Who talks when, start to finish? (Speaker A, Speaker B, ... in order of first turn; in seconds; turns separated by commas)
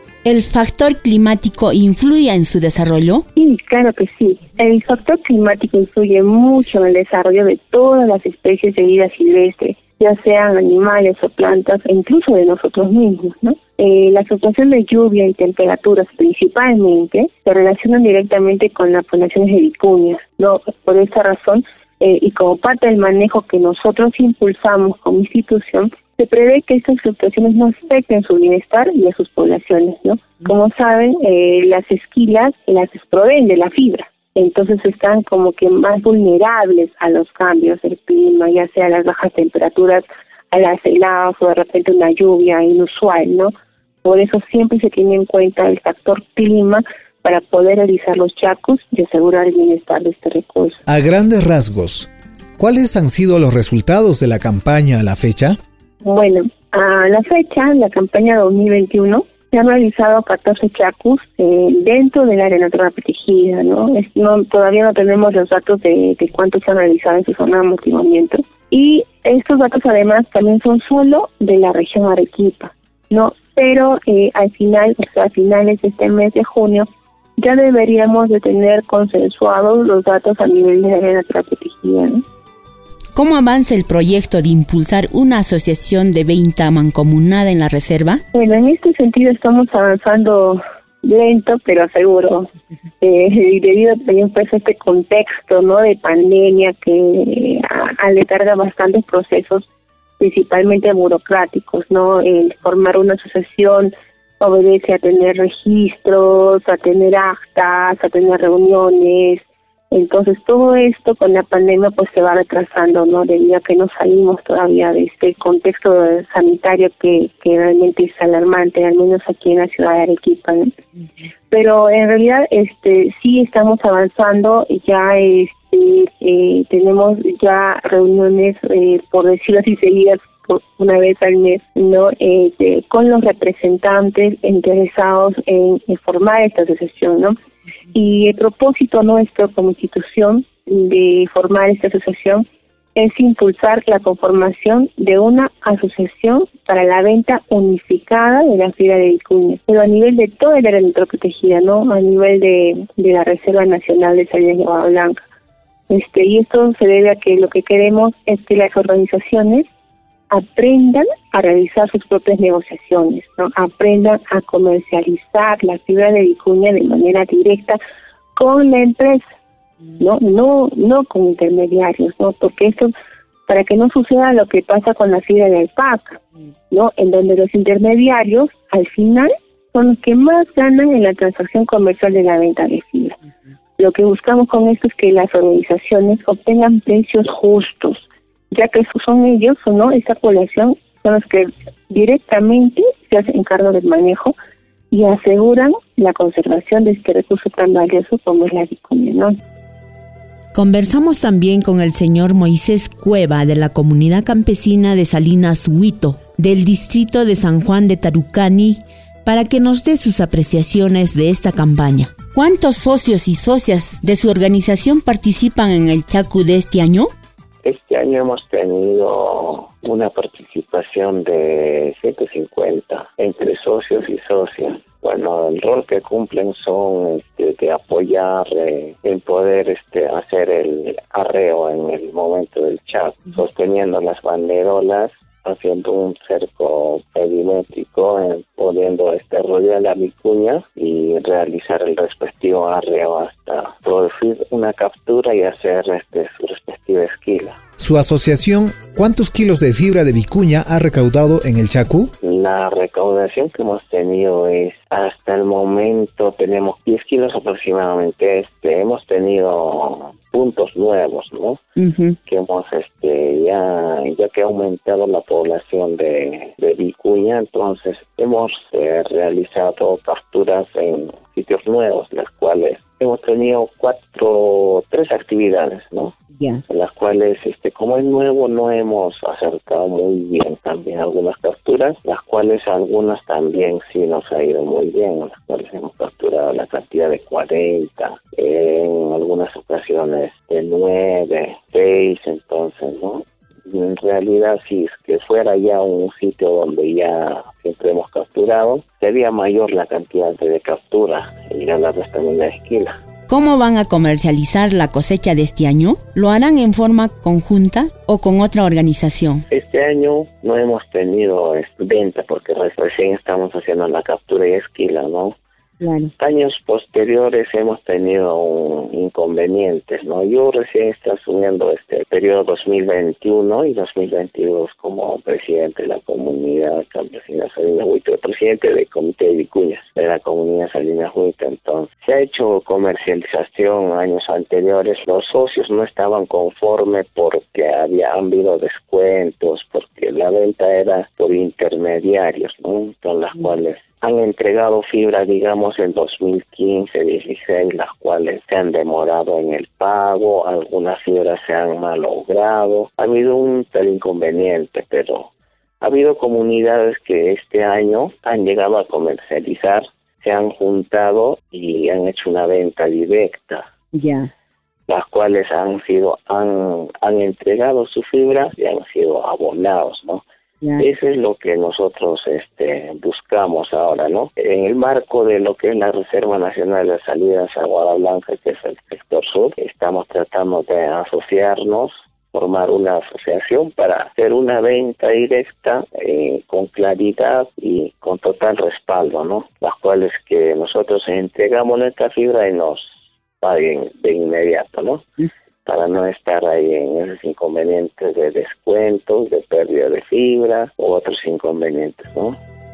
Speaker A: 0.2-3.2, Speaker B: 3.4-43.5, Speaker B: 44.0-50.8, Speaker C: 50.9-55.6, Speaker B: 56.0-82.2, Speaker A: 83.1-88.2, Speaker B: 88.3-92.5, Speaker B: 93.0-99.7, Speaker B: 100.2-120.7, Speaker B: 121.5-137.3, Speaker B: 137.9-142.4, Speaker B: 142.9-155.2, Speaker B: 155.9-159.7, Speaker B: 160.3-167.8, Speaker B: 168.3-169.2, Speaker B: 170.0-172.9, Speaker B: 173.5-183.2, Speaker B: 183.8-194.3, Speaker B: 194.9-199.3, Speaker A: 200.5-217.1, Speaker D: 217.6-247.6, Speaker C: 247.8-252.1, Speaker D: 252.2-261.6, Speaker A: 261.8-262.2, Speaker D: 262.2-303.0, Speaker A: 303.3-309.4, Speaker D: 309.5-315.4, Speaker A: 315.8-316.1, Speaker D: 316.1-355.3, Speaker D: 355.8-363.7, Speaker A: 363.9-364.3, Speaker D: 364.9-370.2, Speaker D: 370.8-395.1, Speaker D: 395.6-402.4